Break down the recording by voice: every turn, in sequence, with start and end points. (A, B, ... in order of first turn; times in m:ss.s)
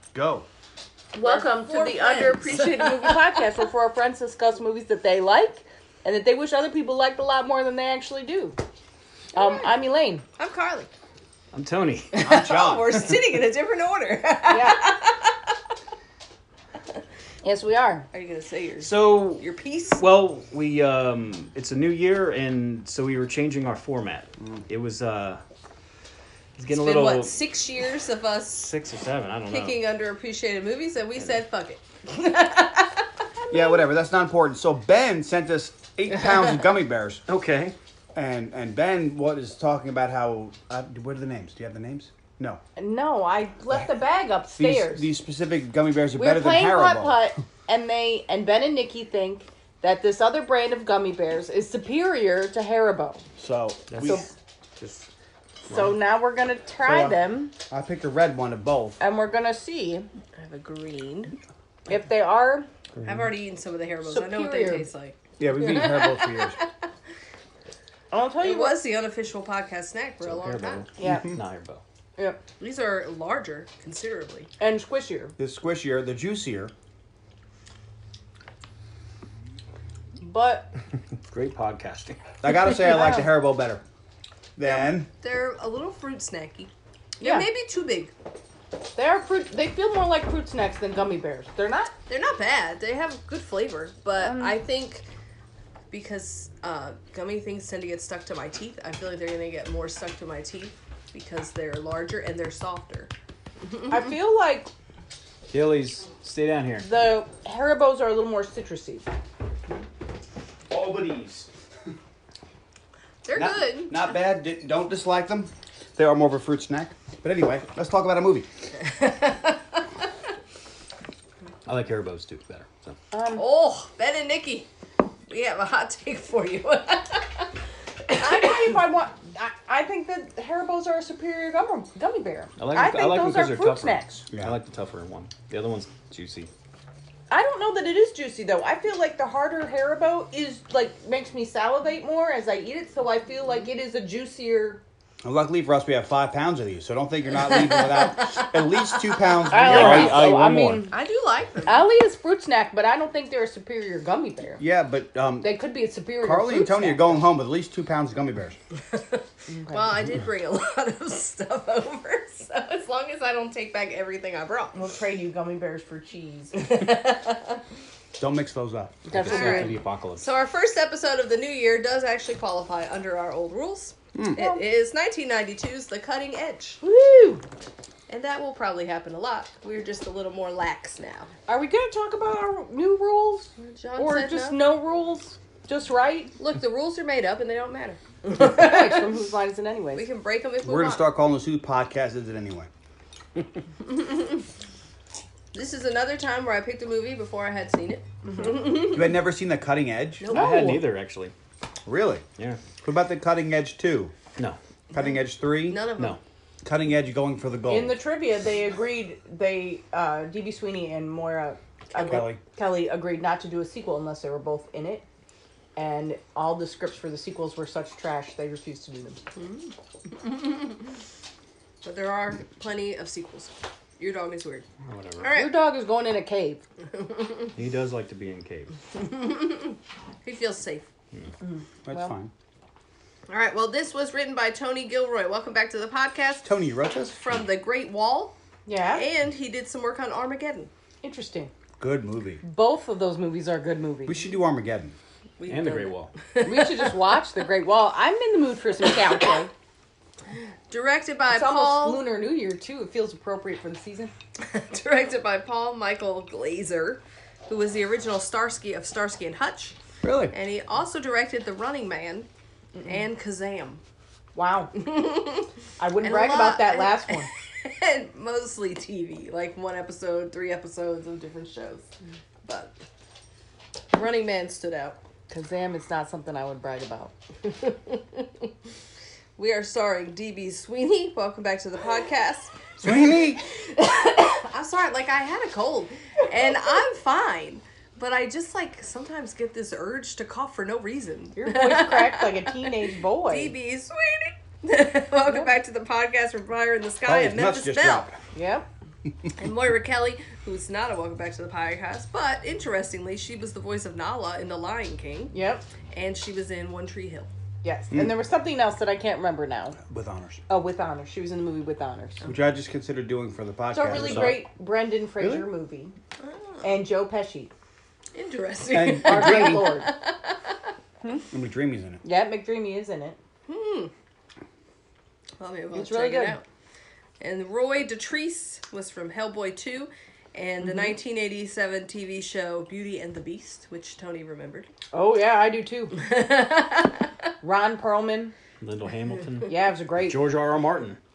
0:00.1-0:00.5 A
0:01.1-0:08.6 B
0:01.2-0:03.4 C
0:09.3-0:10.2 B
0:09.3-0:09.7 C
0:10.4-0:10.9 C
0:11.5-0:12.1 D
0:12.1-0:15.5 C
0:12.2-0:13.2 A
0:14.5-0:14.9 B
0:17.4-0:18.0 B
0:18.1-0:20.0 C
0:18.8-0:19.4 D
0:20.0-0:25.4 D
0:26.6-0:27.3 D
0:26.7-0:28.7 C
0:28.5-0:29.8 D
0:29.5-0:33.0 C
0:33.4-0:33.8 B
0:33.5-0:37.2 A
0:37.3-0:37.8 D
0:38.1-0:42.6 A
0:42.8-0:45.1 B
0:44.6-0:47.2 A
0:46.2-0:53.2 B
0:53.4-0:54.2 A
0:53.9-0:54.3 D
0:54.0-0:54.3 B
0:54.8-0:55.1 D
0:55.7-0:57.5 B
0:56.8-0:59.0 A
0:59.0-1:00.1 B
1:00.4-1:01.3 C
1:01.9-1:02.7 B
1:03.0-1:06.7 C
1:04.0-1:04.9 B
1:05.4-1:06.6 A
1:08.1-1:08.8 B
1:08.4-1:10.8 C
1:10.2-1:11.8 D
1:11.0-1:11.3 B
1:11.0-1:11.3 A
1:12.6-1:14.5 C
1:14.6-1:15.3 B
1:15.4-1:16.7 A
1:20.2-1:20.7 B
1:21.2-1:22.2 D
1:22.4-1:23.8 A
1:22.8-1:23.3 B
1:24.6-1:25.1 A
1:24.6-1:28.1 C
1:27.2-1:27.5 B
1:28.9-1:31.9 B
1:32.1-1:35.0 C
1:34.2-1:34.6 B
1:35.9-1:44.2 C
1:43.9-1:44.7 B
1:45.5-1:46.9 D
1:46.8-1:49.1 B
1:50.7-1:51.5 A
1:53.2-1:54.1 C
1:53.3-1:58.5 A
1:58.8-1:59.8 C
2:01.6-2:03.0 D
2:03.1-2:03.4 B
2:03.3-2:04.7 C
2:05.3-2:07.5 C
2:08.1-2:08.7 C
2:08.1-2:14.2 B
2:12.6-2:16.5 D
2:14.3-2:14.6 A
2:17.3-2:24.8 B
2:25.2-2:30.6 A
2:27.4-2:29.3 C
2:29.5-2:30.9 B
2:29.5-2:30.9 D
2:30.9-2:31.8 C
2:31.6-2:34.6 B
2:34.6-2:35.6 A
2:35.4-2:37.2 B
2:36.2-2:38.6 A
2:38.9-2:44.8 C
2:39.5-2:40.0 B
2:44.7-2:46.8 B
2:46.5-2:47.6 C
2:48.2-2:49.1 A
2:49.1-2:49.7 B
2:49.1-2:50.2 D
2:49.2-2:56.8 C
2:54.4-2:54.6 B
2:56.8-2:57.4 B
2:58.1-3:01.3 C
3:01.5-3:06.3 B
3:03.6-3:04.6 C
3:06.4-3:09.1 C
3:08.3-3:10.1 B
3:09.9-3:11.1 C
3:10.6-3:12.7 A
3:13.9-3:14.4 C
3:15.5-3:19.2 C
3:18.8-3:20.3 A
3:20.2-3:20.5 C
3:20.3-3:21.3 D
3:20.3-3:20.9 B
3:21.8-3:22.2 A
3:22.8-3:24.1 A
3:24.9-3:25.9 A
3:24.9-3:26.2 C
3:26.6-3:28.0 A
3:27.7-3:35.0 B
3:31.9-3:32.3 C
3:32.1-3:32.4 A
3:35.8-3:39.2 B
3:39.3-3:40.7 C
3:41.8-3:44.6 C
3:44.8-3:45.4 D
3:45.2-3:45.5 C
3:45.3-3:46.6 B
3:47.5-3:48.7 D
3:49.0-3:50.9 C
3:51.4-3:52.2 B
3:51.8-3:52.3 A
3:53.3-3:56.5 C
3:56.4-3:57.2 A
3:57.1-3:58.4 C
3:58.6-3:59.1 B
3:58.9-4:00.7 C
4:01.0-4:01.5 B
4:01.8-4:02.4 A
4:02.4-4:04.2 B
4:04.0-4:04.9 A
4:05.4-4:07.0 C
4:05.4-4:06.1 D
4:06.4-4:09.5 B
4:10.7-4:12.0 C
4:11.3-4:14.1 B
4:14.4-4:19.8 C
4:20.0-4:20.3 A
4:20.3-4:22.3 C
4:22.8-4:23.8 C
4:24.3-4:24.7 B
4:24.7-4:25.5 C
4:25.8-4:27.3 B
4:26.0-4:31.9 C
4:32.4-4:32.7 C
4:33.9-4:35.0 C
4:35.3-4:37.1 B
4:37.4-4:38.4 C
4:39.4-4:42.9 C
4:42.8-4:43.4 A
4:43.6-4:52.7 C
4:51.4-4:53.5 B
4:53.3-4:58.1 C
4:57.0-4:58.2 A
4:58.3-4:58.7 B
4:59.4-5:05.3 C
5:05.3-5:05.6 B
5:05.9-5:07.3 C
5:07.6-5:09.8 B
5:07.9-5:08.2 A
5:09.8-5:10.4 A
5:10.5-5:12.3 B
5:12.2-5:14.4 A
5:13.7-5:15.9 B
5:13.9-5:14.4 D
5:15.2-5:15.5 A
5:16.2-5:16.6 C
5:16.6-5:17.5 B
5:18.1-5:20.5 C
5:18.7-5:19.8 A
5:18.9-5:19.9 B
5:21.3-5:22.0 A
5:22.0-5:23.2 B
5:23.4-5:23.9 C
5:25.4-5:26.4 C
5:25.7-5:26.4 B
5:27.2-5:34.7 C
5:34.9-5:36.0 B
5:35.9-5:37.1 C
5:37.4-5:38.3 B
5:38.6-5:41.0 D
5:39.5-5:40.3 B